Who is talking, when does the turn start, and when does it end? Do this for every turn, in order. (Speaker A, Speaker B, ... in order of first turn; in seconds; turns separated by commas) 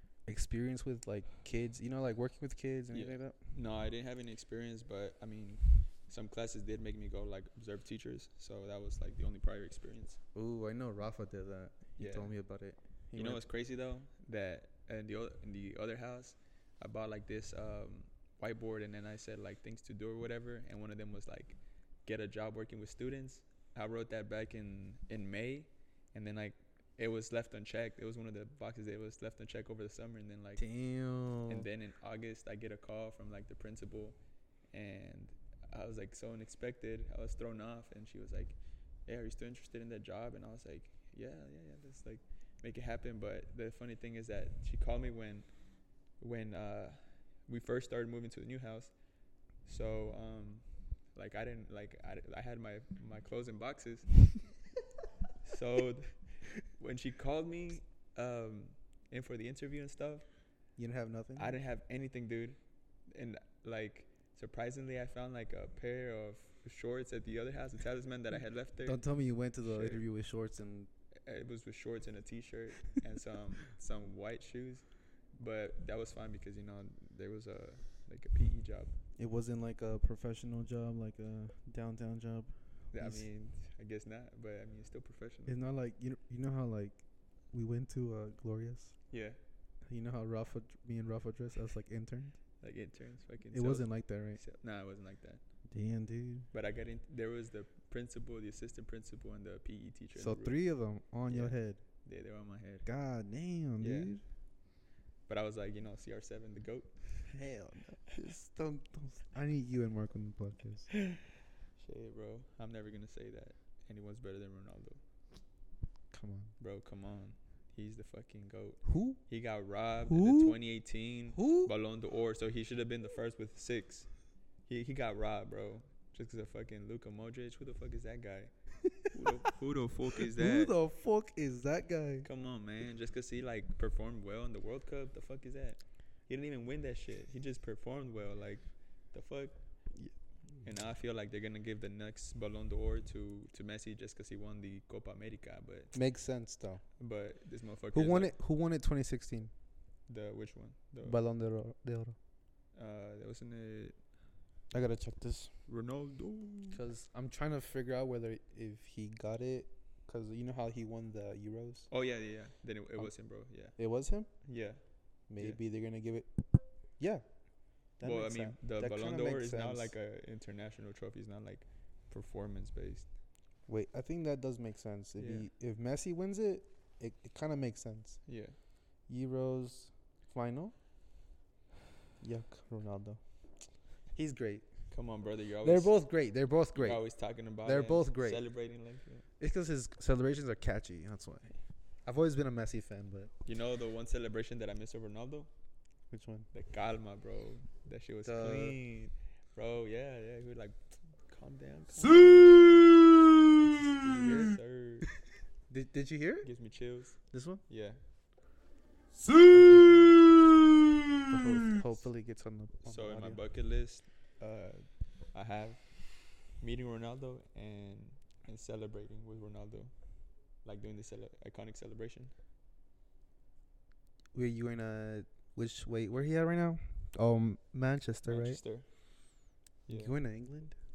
Speaker A: 0.3-3.4, Speaker B: 2.9-10.2, Speaker A: 10.3-13.4, Speaker B: 12.0-12.3, Speaker B: 13.2-30.6, Speaker A: 30.6-31.7, Speaker B: 31.5-34.2, Speaker B: 34.7-45.5, Speaker B: 46.2-49.0, Speaker B: 49.6-54.4, Speaker B: 55.4-60.3, Speaker A: 60.8-61.5, Speaker B: 61.4-69.0, Speaker A: 68.8-70.9, Speaker B: 69.6-70.0, Speaker B: 71.3-74.8, Speaker B: 75.4-79.0, Speaker A: 79.2-83.3, Speaker B: 82.9-85.6, Speaker A: 85.5-89.0, Speaker B: 89.1-89.4, Speaker A: 89.9-92.4, Speaker B: 92.6-95.4, Speaker A: 93.5-94.4, Speaker A: 95.7-96.5, Speaker B: 96.5-100.6, Speaker A: 100.2-101.8, Speaker B: 101.3-102.9, Speaker A: 102.9-104.2, Speaker B: 103.8-104.1, Speaker B: 105.3-107.3, Speaker A: 107.3-110.9, Speaker B: 111.8-115.0, Speaker A: 116.1-116.5, Speaker B: 116.6-124.1, Speaker A: 118.8-119.2, Speaker A: 120.1-120.6, Speaker A: 121.3-121.7, Speaker B: 124.7-128.5, Speaker A: 128.8-129.3, Speaker B: 129.1-130.7, Speaker A: 130.2-132.3, Speaker B: 132.2-139.6, Speaker B: 140.6-145.9, Speaker A: 145.9-146.8, Speaker B: 147.0-148.3, Speaker A: 147.9-149.5, Speaker B: 150.1-151.2, Speaker A: 151.0-152.2, Speaker B: 152.8-154.0, Speaker A: 154.7-155.5, Speaker B: 155.7-156.8, Speaker A: 156.7-161.9, Speaker B: 161.9-163.8, Speaker A: 163.8-164.3, Speaker B: 164.4-164.8, Speaker A: 165.3-166.5, Speaker A: 168.0-169.9, Speaker B: 168.0-173.1, Speaker A: 173.7-178.2, Speaker B: 175.2-175.5, Speaker B: 178.3-178.6, Speaker A: 179.1-180.7, Speaker A: 182.2-183.2, Speaker A: 184.1-184.7, Speaker B: 184.9-185.9, Speaker A: 185.6-187.0, Speaker B: 186.8-189.2, Speaker A: 187.6-188.4, Speaker A: 189.4-191.5, Speaker A: 192.1-193.3, Speaker B: 193.4-195.5, Speaker A: 196.1-196.5, Speaker B: 196.5-202.8, Speaker A: 198.2-198.8, Speaker A: 203.6-204.5, Speaker B: 203.9-205.1, Speaker A: 205.7-206.5, Speaker B: 206.4-208.0, Speaker A: 207.3-207.6, Speaker A: 209.4-210.4, Speaker A: 211.3-213.4, Speaker B: 212.9-220.0, Speaker B: 220.6-222.3, Speaker A: 224.3-228.6, Speaker B: 228.3-228.9, Speaker B: 229.9-230.2, Speaker A: 229.9-230.8